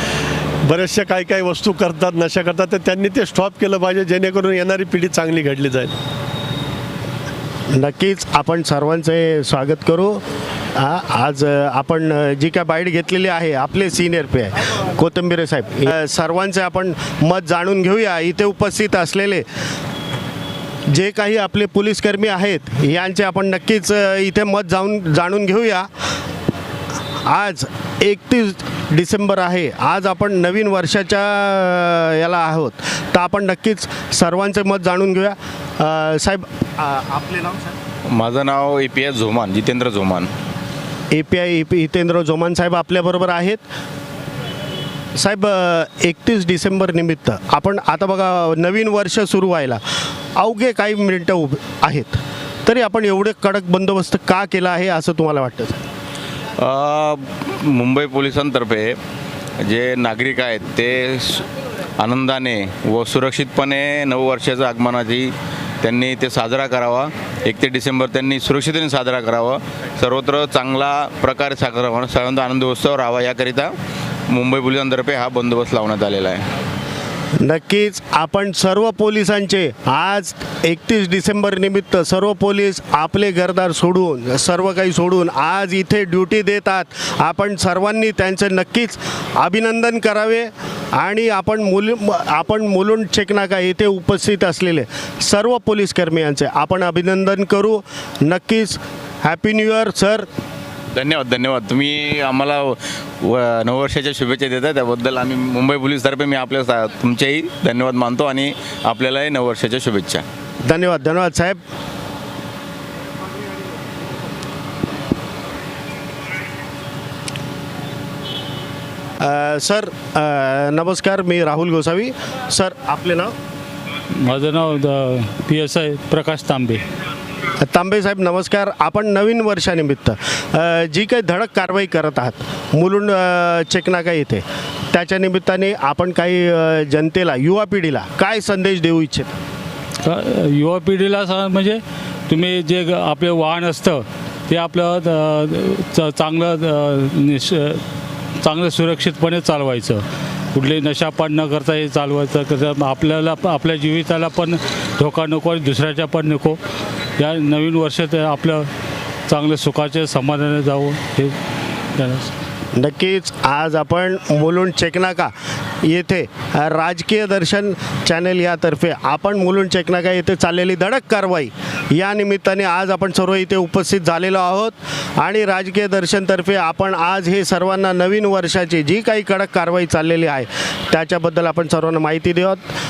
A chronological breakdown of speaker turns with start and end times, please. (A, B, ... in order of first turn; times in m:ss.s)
0:00.6-0:05.9 A
0:07.7-0:10.2 B
0:10.7-0:19.4 B
0:20.9-0:25.9 B
0:27.2-0:37.7 B
0:38.1-0:40.3 C
0:41.1-0:43.6 B
0:45.2-0:49.8 B
0:50.4-0:55.8 B
0:56.6-0:59.0 C
0:59.6-1:01.4 C
1:02.0-1:05.3 C
1:05.8-1:13.7 C
1:14.3-1:16.4 C
1:17.4-1:40.3 B
1:40.9-1:50.2 C
1:50.6-1:51.6 B
1:59.2-2:03.3 B
2:04.2-2:06.8 D
2:07.6-2:19.3 B
2:20.0-2:27.8 D
2:28.4-2:30.0 D
2:30.5-2:36.6 D
2:37.2-2:38.6 D
2:39.3-2:41.3 D
2:42.0-2:42.3 D
2:42.7-3:02.6 B